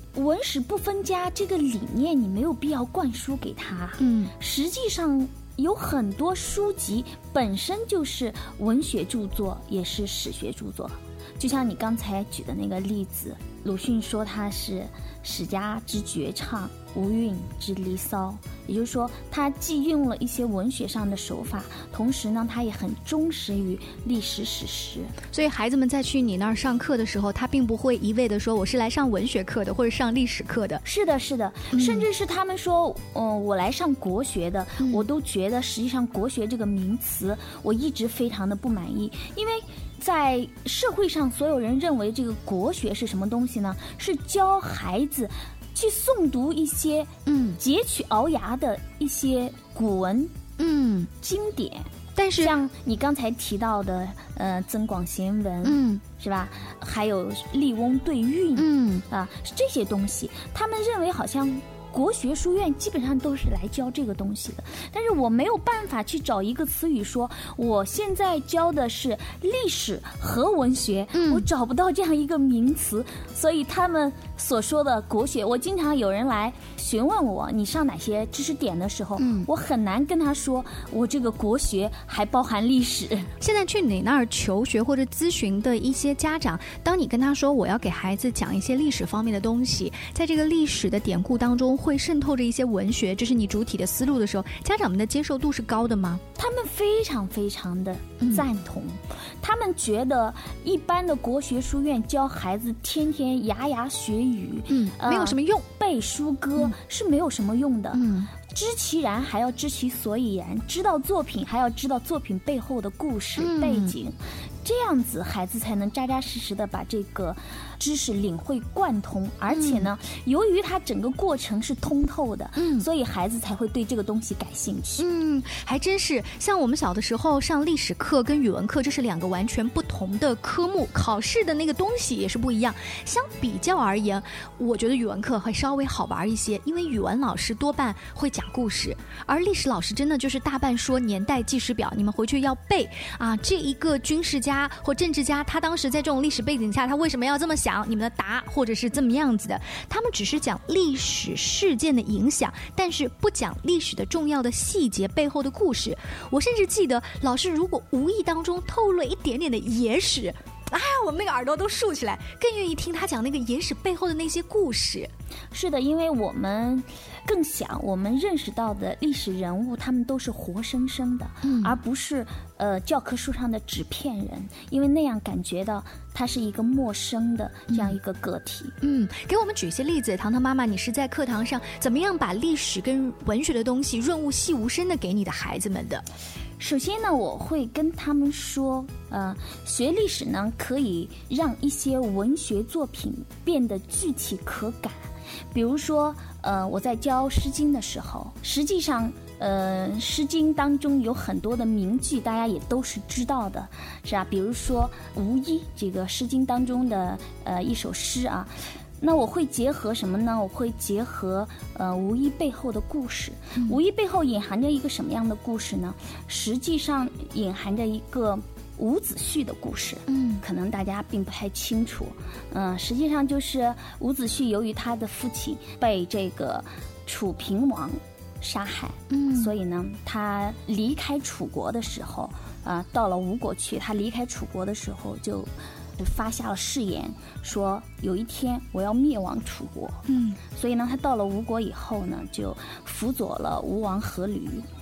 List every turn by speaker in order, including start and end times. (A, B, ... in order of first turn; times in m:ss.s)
0:00.2-0:25.1 A
0:04.0-0:04.3 B
0:25.3-0:30.8 B
0:30.8-0:50.3 A
0:31.7-0:32.0 B
0:47.3-0:47.6 B
0:50.6-0:51.1 B
0:51.1-0:51.9 A
0:52.2-0:52.5 B
0:52.4-1:23.3 A
0:55.6-0:56.0 B
0:58.6-0:59.0 B
1:11.1-1:11.5 B
1:19.2-1:19.5 B
1:23.4-1:36.2 B
1:36.4-2:05.0 A
1:44.7-1:45.6 B
1:47.9-1:48.3 B
1:53.4-1:53.9 B
1:59.5-1:59.9 B
2:02.6-2:02.8 B
2:05.0-2:45.1 B
2:45.5-2:58.8 A
2:51.4-2:51.8 B
2:57.7-2:58.0 B
2:58.8-3:06.0 B
3:06.6-4:04.7 A
3:40.1-3:40.4 B
3:49.1-3:49.5 B
4:00.1-4:00.4 B